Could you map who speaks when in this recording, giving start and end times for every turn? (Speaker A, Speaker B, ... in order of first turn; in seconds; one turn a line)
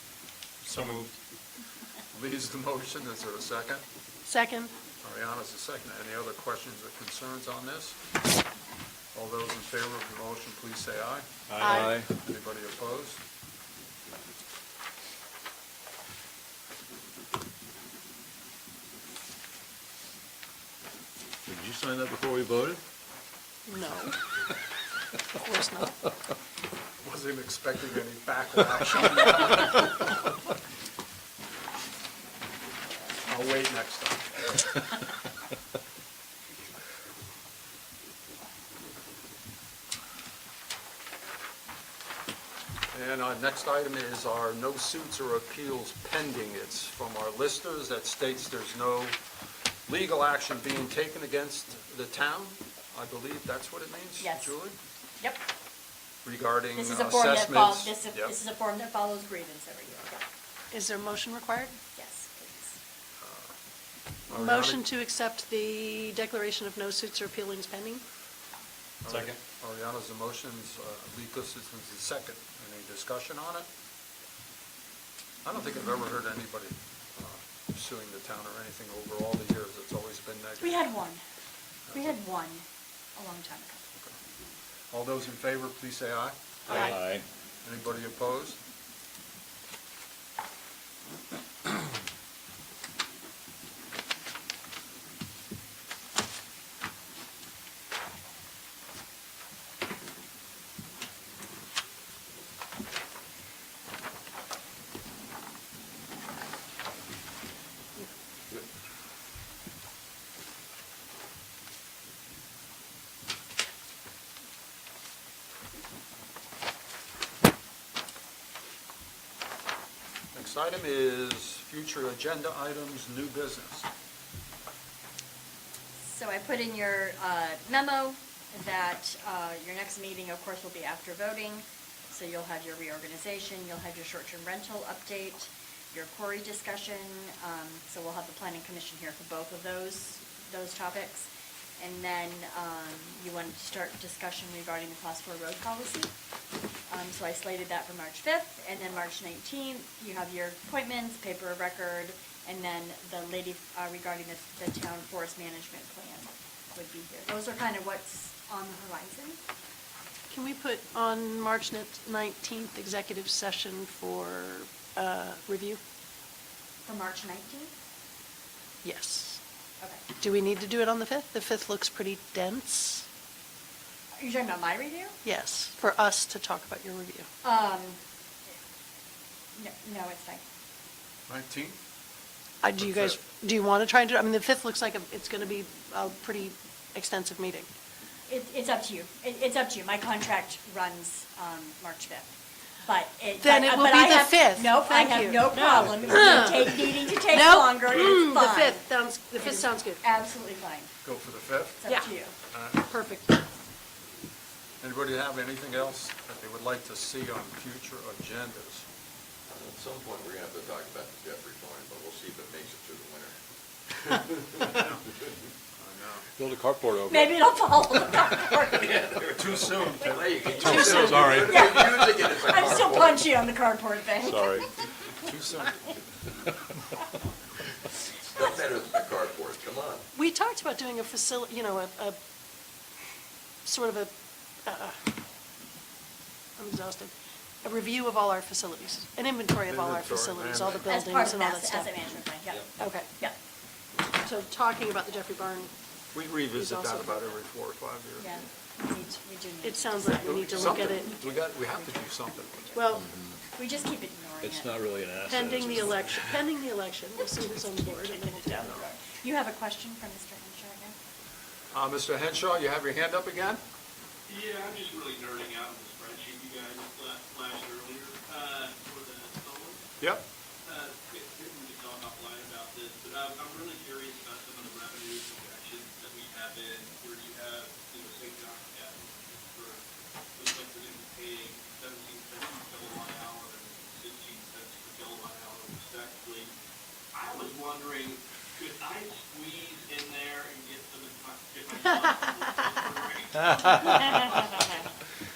Speaker A: 0.6-1.2
Speaker A: 2.1-3.8
Speaker B: 4.2-4.7
Speaker A: 5.0-8.0
Speaker A: 9.1-13.2
Speaker C: 11.5-12.1
Speaker B: 11.6-11.9
Speaker C: 21.5-22.8
Speaker B: 23.7-24.2
Speaker B: 25.4-26.0
Speaker A: 27.0-30.1
Speaker A: 33.2-34.6
Speaker A: 42.9-49.2
Speaker A: 49.9-54.8
Speaker D: 54.2-54.5
Speaker D: 55.2-55.5
Speaker A: 56.2-58.4
Speaker D: 56.7-60.2
Speaker B: 60.7-61.8
Speaker D: 62.0-62.8
Speaker A: 63.2-63.5
Speaker A: 64.3-64.8
Speaker B: 64.3-68.0
Speaker A: 69.0-73.7
Speaker C: 69.1-69.3
Speaker A: 75.4-80.8
Speaker D: 80.6-81.2
Speaker A: 81.9-82.2
Speaker D: 81.9-83.9
Speaker A: 84.9-87.0
Speaker C: 86.7-87.2
Speaker A: 87.6-88.6
Speaker A: 120.3-123.9
Speaker D: 126.0-146.1
Speaker D: 146.9-159.4
Speaker B: 160.3-165.8
Speaker D: 166.8-167.7
Speaker B: 168.8-169.4
Speaker B: 170.2-173.1
Speaker D: 174.2-175.2
Speaker B: 175.2-177.3
Speaker D: 177.4-178.0
Speaker D: 179.6-180.4
Speaker A: 181.3-181.8
Speaker B: 182.6-187.7
Speaker A: 182.8-183.2
Speaker D: 188.3-192.3
Speaker D: 192.8-198.9
Speaker B: 193.4-200.0
Speaker D: 199.4-200.9
Speaker A: 201.0-201.8
Speaker D: 201.8-202.3
Speaker B: 201.9-202.1
Speaker A: 202.5-202.9
Speaker B: 202.9-203.4
Speaker A: 204.8-208.8
Speaker E: 209.5-213.3
Speaker A: 215.8-216.3
Speaker C: 216.4-217.4
Speaker D: 217.1-219.0
Speaker E: 218.7-223.3
Speaker A: 219.4-220.3
Speaker D: 220.4-224.7
Speaker C: 220.6-221.6
Speaker A: 220.8-221.1
Speaker C: 224.2-224.7
Speaker A: 225.2-225.8
Speaker E: 228.3-230.0
Speaker B: 230.2-232.2
Speaker B: 233.7-234.1
Speaker B: 234.7-235.0
Speaker B: 236.6-237.1
Speaker B: 237.6-241.9
Speaker A: 239.7-240.8
Speaker D: 240.8-243.4
Speaker B: 242.8-243.1
Speaker B: 244.1-245.7
Speaker A: 246.1-248.4
Speaker B: 246.5-247.3
Speaker D: 248.2-254.8
Speaker B: 249.6-251.1
Speaker A: 250.6-252.8
Speaker B: 252.7-253.1
Speaker C: 252.9-253.4
Speaker C: 254.4-256.4
Speaker B: 255.3-258.9
Speaker D: 257.9-261.0
Speaker A: 261.7-263.6
Speaker F: 264.3-269.9
Speaker F: 270.6-279.8
Speaker F: 280.4-286.5
Speaker F: 287.1-294.8
Speaker C: 293.6-294.4